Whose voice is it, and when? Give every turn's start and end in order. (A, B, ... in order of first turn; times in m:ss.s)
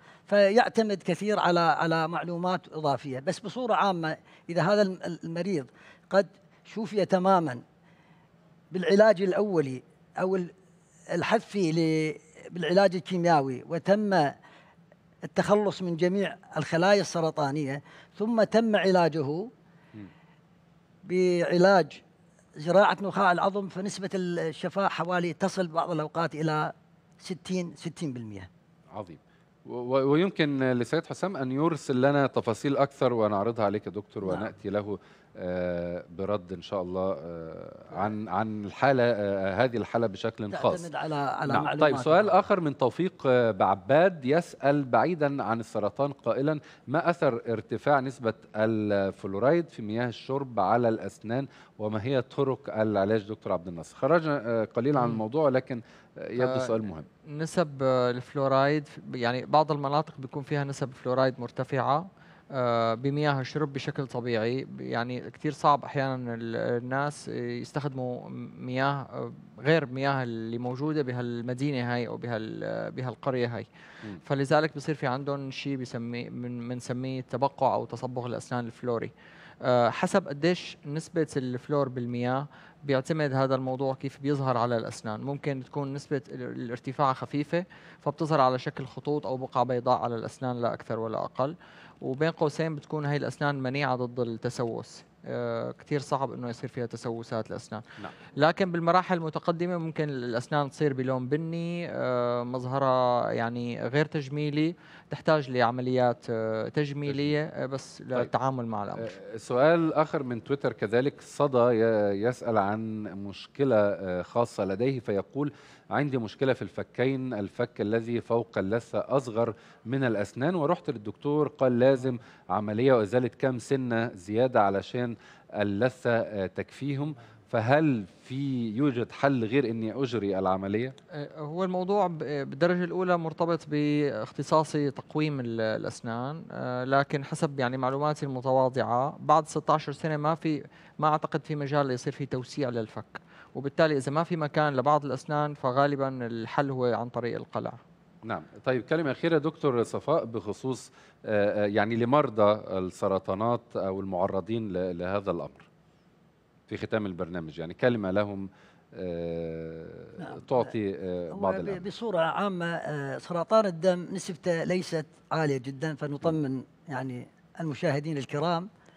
0:00.3-0:07.6 A
0:08.7-0:10.5 A
0:11.1-0:14.3 A
0:15.3-0:19.5 A
0:21.0-0:22.0 A
0:22.6-0:28.5 A
0:28.9-0:40.9 B
0:34.2-0:34.5 A
0:40.5-0:42.3 A
0:41.5-0:57.1 B
0:56.4-1:13.7 C
1:14.2-1:19.1 C
1:19.6-1:37.8 C
1:38.4-1:49.1 C
1:47.1-1:47.3 B
1:49.0-2:11.0 B
2:11.2-2:27.8 C
2:28.2-2:35.7 B
2:36.7-2:41.8 B
2:40.2-2:40.7 A
2:41.3-2:48.7 A